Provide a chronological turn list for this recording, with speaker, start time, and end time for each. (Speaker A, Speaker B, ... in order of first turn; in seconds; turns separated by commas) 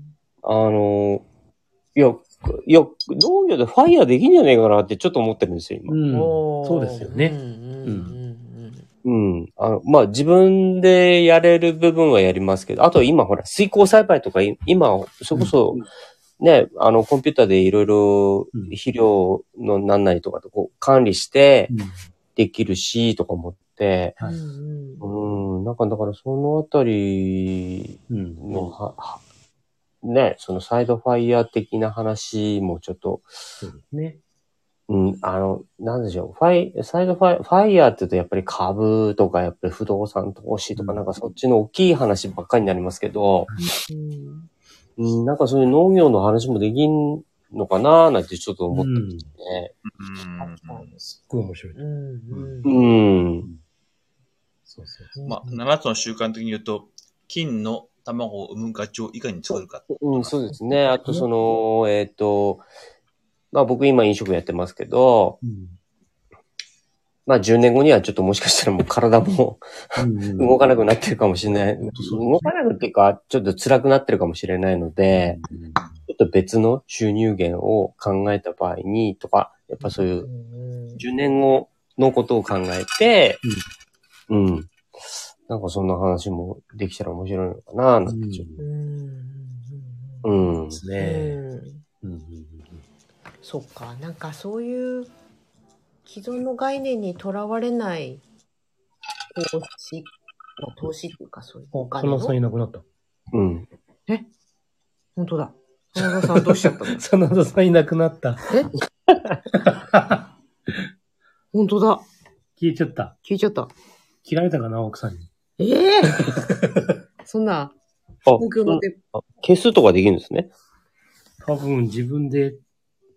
Speaker A: 0.4-1.2, Speaker A: 1.9-6.0, Speaker B: 5.9-8.1, Speaker C: 6.1-8.8, Speaker A: 9.0-15.8, Speaker A: 16.4-21.7, Speaker B: 21.7-22.0, Speaker A: 22.4-24.2, Speaker C: 24.2-25.0, Speaker A: 25.0-29.2, Speaker B: 28.1-28.6, Speaker A: 30.0-33.3, Speaker B: 33.6-34.2, Speaker A: 34.9-43.5, Speaker C: 43.6-44.5, Speaker A: 45.0-49.7, Speaker B: 48.7-49.3, Speaker D: 49.8-50.9, Speaker C: 50.4-50.9, Speaker B: 51.0-51.8, Speaker C: 51.7-52.8, Speaker B: 52.3-52.6, Speaker A: 52.6-53.5, Speaker B: 54.6-55.1, Speaker C: 55.1-55.6, Speaker D: 55.2-60.3, Speaker A: 59.9-62.6, Speaker A: 63.5-65.4, Speaker B: 65.4-65.8, Speaker A: 67.2-69.6, Speaker B: 70.0-70.5, Speaker A: 70.3-75.4, Speaker B: 71.8-72.5, Speaker B: 75.1-75.9, Speaker A: 76.1-80.3, Speaker C: 79.8-81.0, Speaker A: 81.0-83.4, Speaker A: 84.3-84.7, Speaker A: 85.5-88.5, Speaker B: 88.1-88.6, Speaker C: 88.6-91.8, Speaker A: 90.2-90.8, Speaker B: 90.7-91.4, Speaker B: 92.0-92.8, Speaker C: 93.4-95.1, Speaker C: 96.0-98.2, Speaker C: 99.3-102.3, Speaker B: 101.7-102.8, Speaker A: 103.3-103.7, Speaker C: 105.2-107.0, Speaker B: 106.0-108.4, Speaker A: 109.1-109.3, Speaker B: 109.5-110.8, Speaker C: 111.5-112.0, Speaker B: 112.6-113.2, Speaker C: 113.2-113.7, Speaker B: 114.2-115.3, Speaker C: 115.6-116.3, Speaker B: 116.3-116.9, Speaker C: 117.2-117.7, Speaker A: 118.2-120.5, Speaker C: 118.4-119.0, Speaker B: 121.4-122.6